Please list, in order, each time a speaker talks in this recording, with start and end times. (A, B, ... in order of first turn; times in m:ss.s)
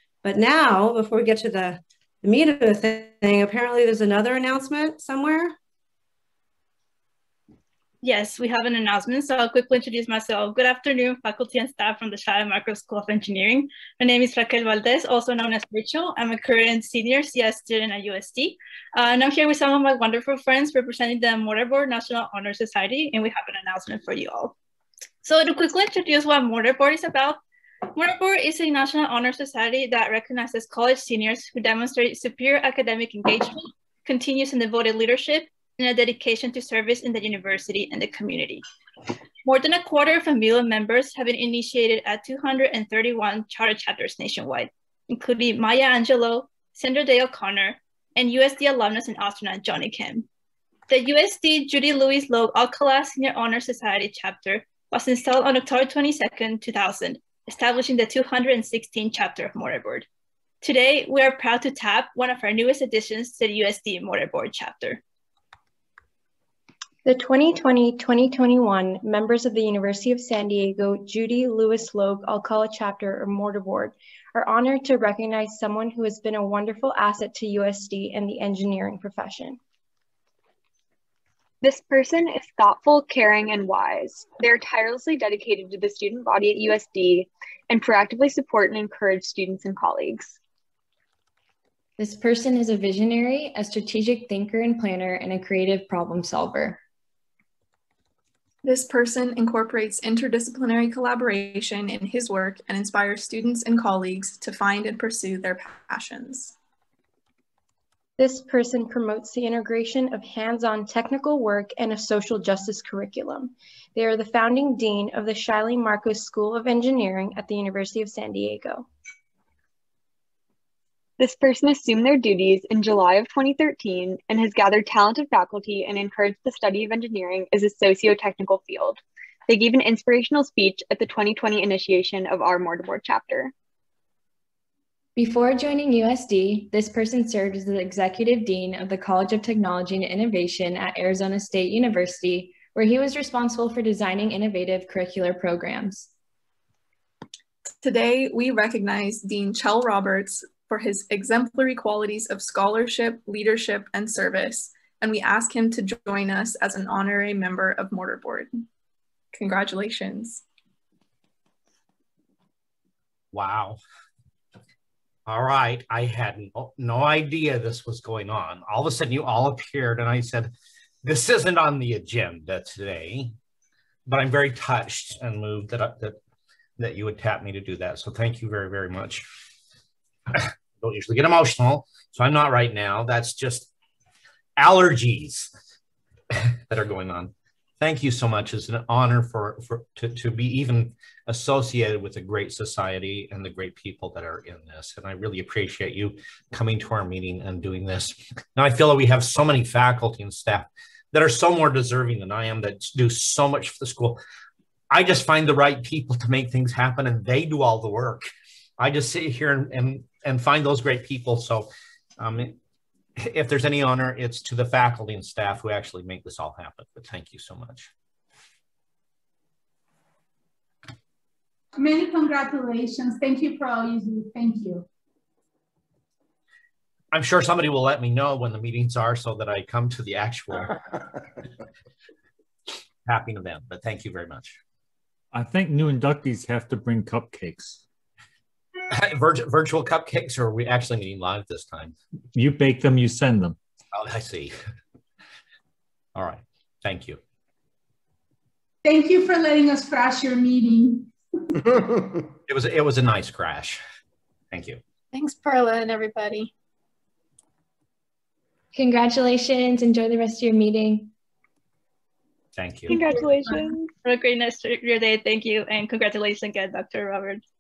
0:00.3-0:05.4 A
0:08.0-0:24.5 B
0:25.2-0:27.4 B
0:27.9-0:38.6 B
0:39.4-0:50.2 B
0:50.9-1:00.0 B
1:00.6-1:05.0 B
1:07.0-1:19.6 C
1:21.6-1:30.4 D
1:32.0-1:36.8 E
1:38.6-1:46.5 F
1:48.2-1:58.9 C
2:01.2-2:13.5 D
2:15.2-2:26.1 E
2:27.8-2:38.5 F
2:39.3-2:40.4 F
2:43.3-2:43.8 G
2:45.3-2:50.5 G
2:51.0-2:53.3 G
2:54.0-2:56.2 G
2:56.8-2:59.2 G
3:00.3-3:03.7 G
3:04.6-3:05.5 G
3:06.3-3:24.2 G
3:24.9-3:28.3 G
3:28.8-3:32.6 G
3:33.2-3:37.9 G
3:41.8-3:44.8 H
3:47.1-3:50.7 G
3:53.0-3:54.6 G
3:55.3-3:57.8 I
3:58.9-4:01.9 G
4:02.3-4:03.6 I
4:03.9-4:04.5 G
4:06.1-4:07.2 G
4:08.8-4:11.1 H
4:12.5-4:13.8 G
4:14.5-4:14.8 G
4:15.1-4:16.5 F
4:18.7-4:21.1 E
4:22.5-4:23.0 G
4:22.9-4:23.9 D
4:24.0-4:27.4 B